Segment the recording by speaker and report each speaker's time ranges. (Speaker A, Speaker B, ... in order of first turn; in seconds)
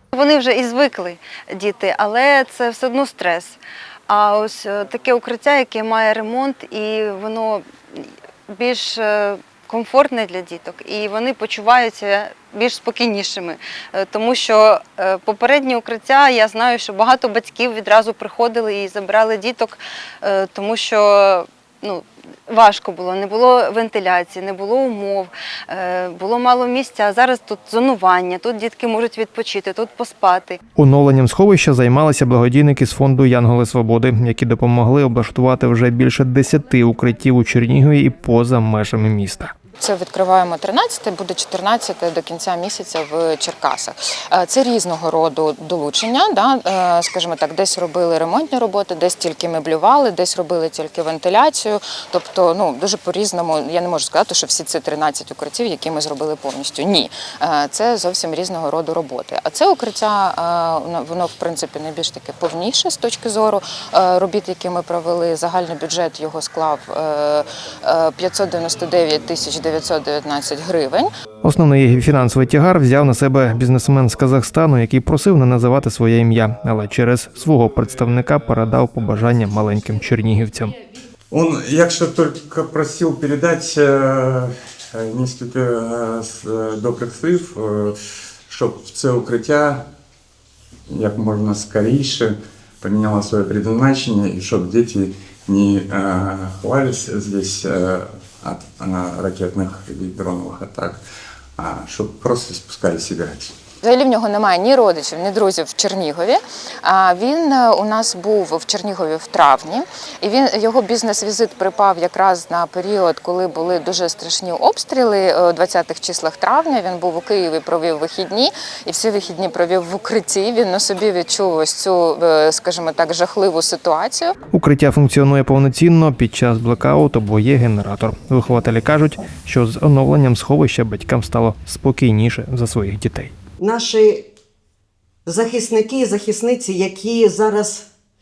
Speaker A: 0.1-30.6
Speaker B: 30.8-39.5, 71.4-80.7, 124.5-133.3
Speaker C: 39.8-71.1, 103.8-124.3
Speaker D: 81.3-88.0, 88.5-89.9, 90.9-101.0, 101.6-103.5
Speaker E: 133.6-134.3, 135.2-137.9